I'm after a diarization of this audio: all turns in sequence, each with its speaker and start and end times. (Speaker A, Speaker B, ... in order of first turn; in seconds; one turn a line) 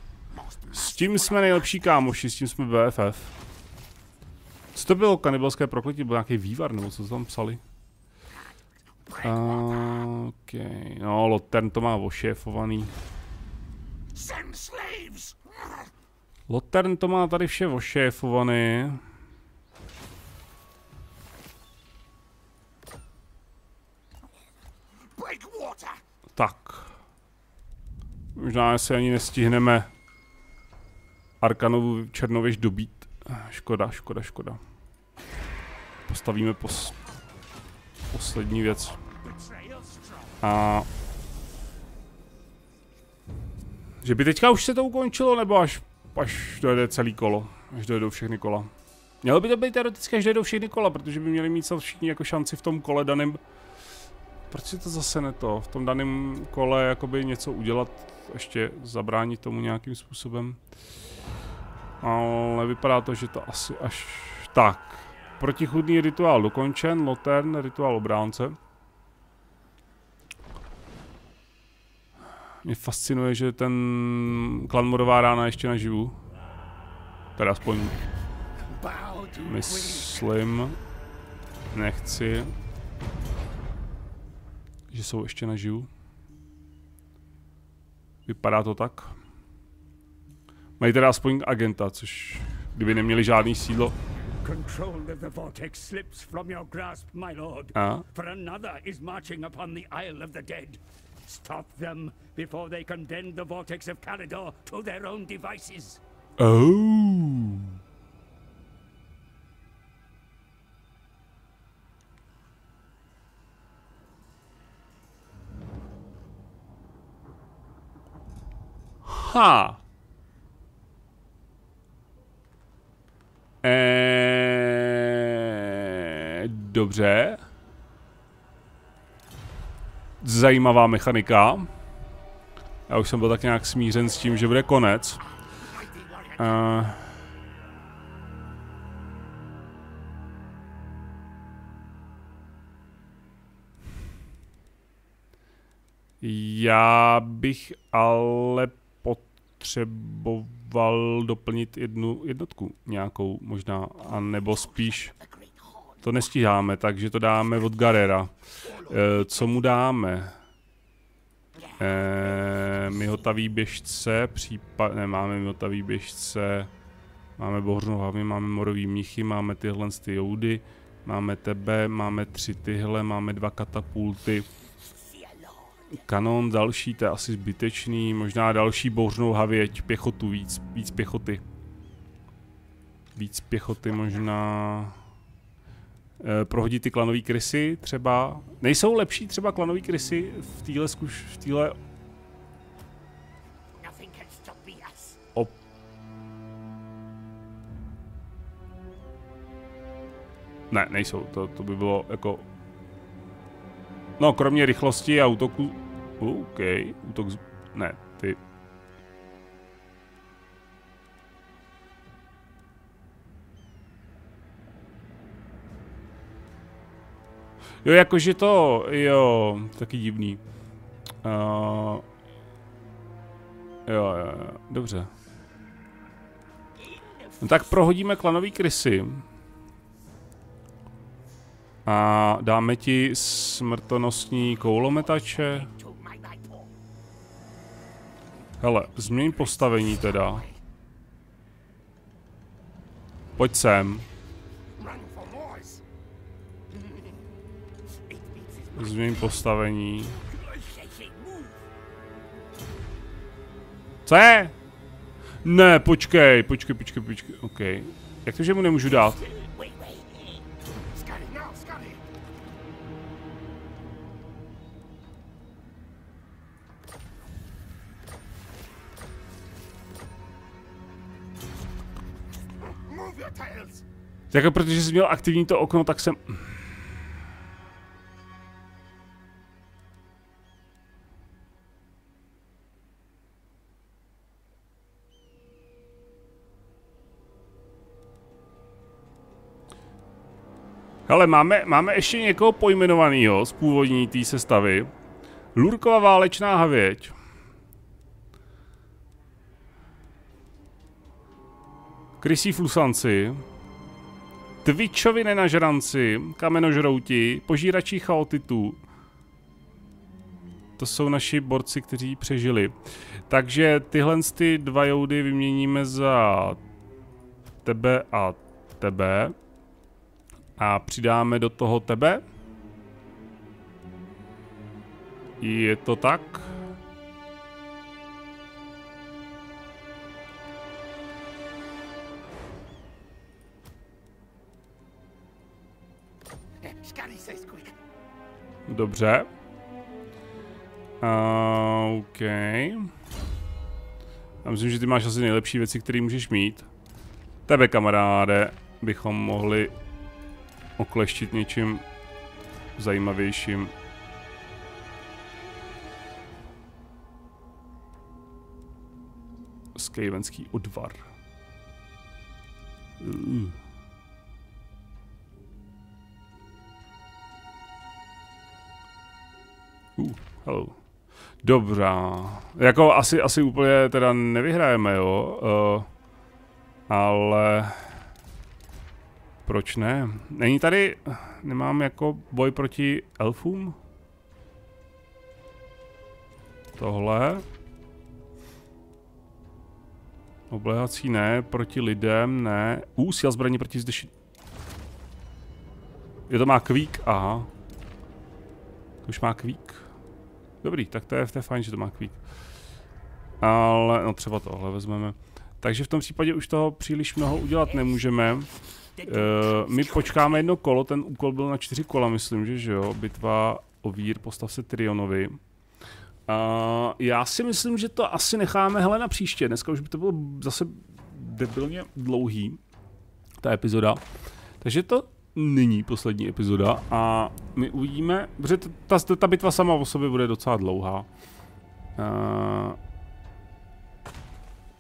Speaker A: 0.3-2.0
Speaker B: 0.7-3.4
Speaker B: 4.7-7.6
Speaker A: 9.1-10.1
Speaker B: 9.2-12.9
Speaker A: 14.1-15.9
Speaker B: 16.5-19.0
Speaker A: 25.0-26.0
Speaker B: 26.4-26.9
Speaker B: 28.4-29.9
Speaker B: 31.4-34.6
Speaker B: 36.1-37.0
Speaker B: 38.1-39.0
Speaker A: 39.2-40.4
Speaker B: 40.4-40.9
Speaker B: 44.0-48.7
Speaker B: 49.2-53.4
Speaker B: 54.5-60.6
Speaker B: 62.0-68.6
Speaker B: 72.6-76.2
Speaker B: 77.4-78.0
Speaker A: 78.7-80.3
Speaker B: 79.4-80.8
Speaker B: 81.7-82.5
Speaker B: 84.9-85.9
Speaker B: 88.3-89.1
Speaker B: 90.8-94.0
Speaker A: 94.4-106.0
Speaker B: 97.8-98.0
Speaker B: 106.4-107.8
Speaker B: 119.0-119.8
Speaker B: 123.6-127.4
Speaker B: 130.2-131.7
Speaker B: 132.9-135.2
Speaker A: 135.5-136.6
Speaker B: 136.4-137.1
Speaker B: 146.2-155.1
Speaker A: 154.3-156.1
Speaker B: 156.0-160.4
Speaker A: 158.6-159.6
Speaker A: 161.6-162.0
Speaker B: 161.8-166.7
Speaker B: 167.4-174.5
Speaker A: 174.8-176.0
Speaker B: 175.9-181.4
Speaker B: 183.2-185.0
Speaker B: 186.2-191.8
Speaker A: 193.7-195.2
Speaker B: 200.7-202.5
Speaker B: 204.2-208.4
Speaker B: 217.8-220.4
Speaker B: 221.2-222.1
Speaker B: 223.9-225.1
Speaker A: 226.9-227.6
Speaker B: 227.4-229.3
Speaker B: 231.9-235.7
Speaker A: 234.7-236.7
Speaker B: 238.6-240.5
Speaker A: 239.1-240.6
Speaker B: 243.4-244.1
Speaker A: 244.8-245.8
Speaker A: 246.7-247.2
Speaker A: 247.9-249.5
Speaker B: 248.8-250.2
Speaker A: 250.1-251.6
Speaker B: 254.1-254.6
Speaker B: 255.4-259.2
Speaker A: 259.1-262.1
Speaker A: 272.7-273.9
Speaker B: 274.3-276.7
Speaker B: 291.1-294.9
Speaker B: 295.6-297.1
Speaker B: 302.2-303.4
Speaker B: 304.6-308.8
Speaker B: 310.8-312.8
Speaker B: 313.3-316.6
Speaker B: 317.6-319.4
Speaker B: 320.6-322.2
Speaker B: 325.4-326.5
Speaker A: 336.6-337.8
Speaker B: 338.7-339.3
Speaker B: 341.0-342.9
Speaker B: 344.4-346.7
Speaker B: 347.5-349.7
Speaker B: 350.8-351.9
Speaker B: 352.8-353.7
Speaker B: 359.8-361.1
Speaker B: 363.0-363.6
Speaker B: 370.0-370.8
Speaker B: 371.4-375.9
Speaker B: 376.9-378.0
Speaker B: 379.5-383.8
Speaker B: 386.8-387.4
Speaker B: 390.5-394.1
Speaker B: 396.3-397.5
Speaker B: 399.1-399.9
Speaker B: 400.6-402.2
Speaker B: 403.4-408.5
Speaker A: 409.0-410.3
Speaker B: 409.0-415.4
Speaker B: 416.3-422.6
Speaker B: 423.4-424.0
Speaker B: 424.6-431.1
Speaker B: 432.0-432.8